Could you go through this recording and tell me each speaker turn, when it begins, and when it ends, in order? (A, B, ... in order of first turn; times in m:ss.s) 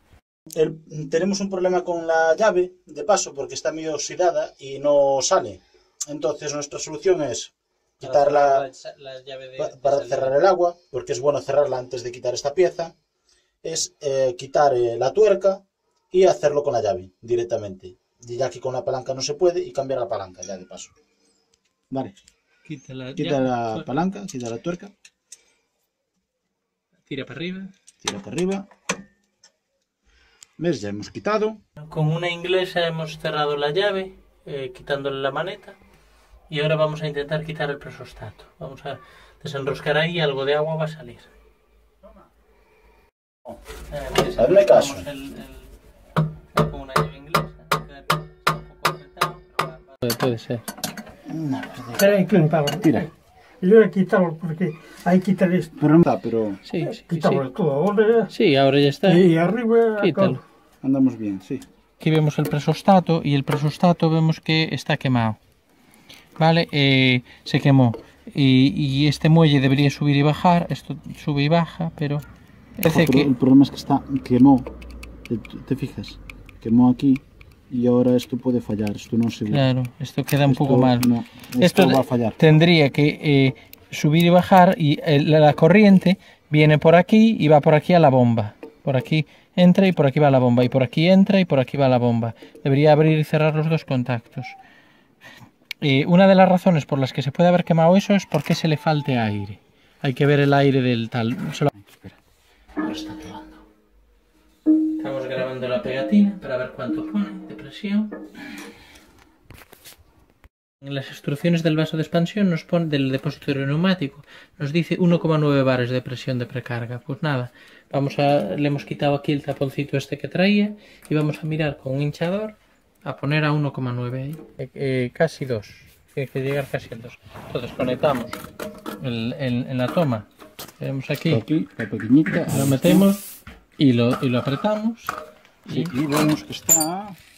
0:00.6-0:08.7 A
0:08.0-0:10.4 B
0:09.6-0:13.0 A
0:13.6-0:20.9 A
0:21.9-0:22.2 A
0:22.6-0:23.9 B
0:23.2-0:24.9 A
0:27.1-0:27.7 B
0:28.0-0:28.7 A
0:30.6-0:31.6 A
0:31.8-0:35.8 B
0:36.5-0:41.3 B
0:43.9-0:45.7 B
0:44.4-0:45.1 A
0:46.5-0:50.7 B
0:51.3-0:52.2 A
0:52.0-0:55.8 C
0:52.8-0:53.1 A
0:55.8-0:56.6 A
0:56.7-0:57.4 B
0:56.8-0:58.3 C
0:58.3-0:59.3 B
0:59.1-1:00.4 C
1:00.0-1:00.4 B
1:00.8-1:01.7 A
1:02.0-1:05.4 B
1:06.4-1:12.2 B
1:12.8-1:13.3 B
1:12.8-1:14.7 A
1:15.3-1:19.7 A
1:19.5-1:34.6 B
1:20.5-1:22.5 A
1:35.8-1:41.7 B
1:41.8-1:42.2 A
1:42.8-1:43.6 A
1:45.0-1:48.2 B
1:50.8-2:08.4 B
2:09.0-2:10.3 B
2:10.8-2:11.4 B
2:11.3-2:13.1 A
2:12.4-2:13.3 B
2:13.8-2:15.2 B
2:15.7-2:15.9 B
2:15.7-2:17.2 A